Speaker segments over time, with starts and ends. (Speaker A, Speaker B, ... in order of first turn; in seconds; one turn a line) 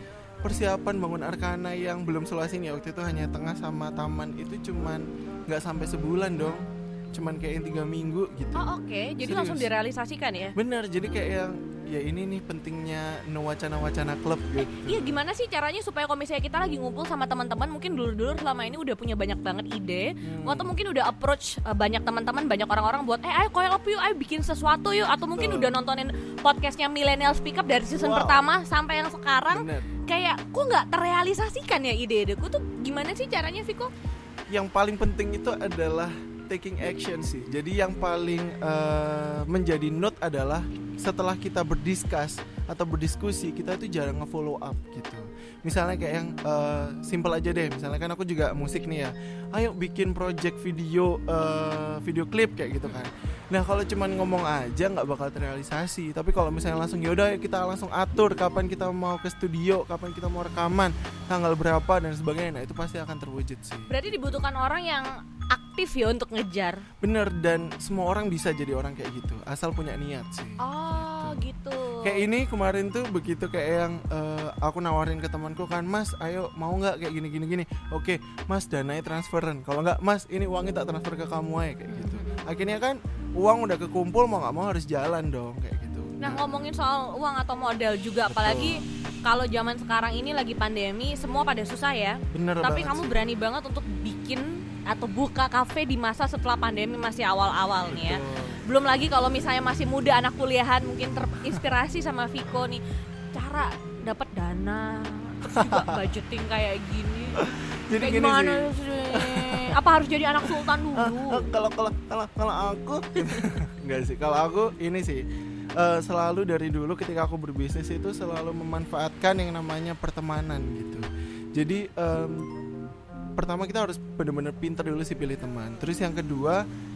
Speaker A: 0.4-9.7
Speaker B: 8.5-10.5
Speaker A: 10.5-15.1
Speaker B: 14.7-33.9
Speaker A: 20.2-20.7
Speaker A: 25.3-25.8
Speaker A: 27.9-28.4
Speaker A: 29.5-29.9
Speaker A: 34.5-64.5
Speaker B: 63.9-66.8
Speaker A: 67.0-71.5
Speaker B: 70.6-72.2
Speaker A: 72.0-86.7
Speaker B: 81.9-82.5
Speaker B: 86.2-102.8
Speaker A: 88.3-88.8
Speaker A: 92.3-93.3
Speaker A: 97.8-98.7
Speaker B: 103.3-107.4
Speaker A: 105.5-105.9
Speaker A: 107.4-109.8
Speaker B: 108.0-111.5
Speaker A: 110.4-115.2
Speaker A: 115.8-122.5
Speaker A: 123.4-126.6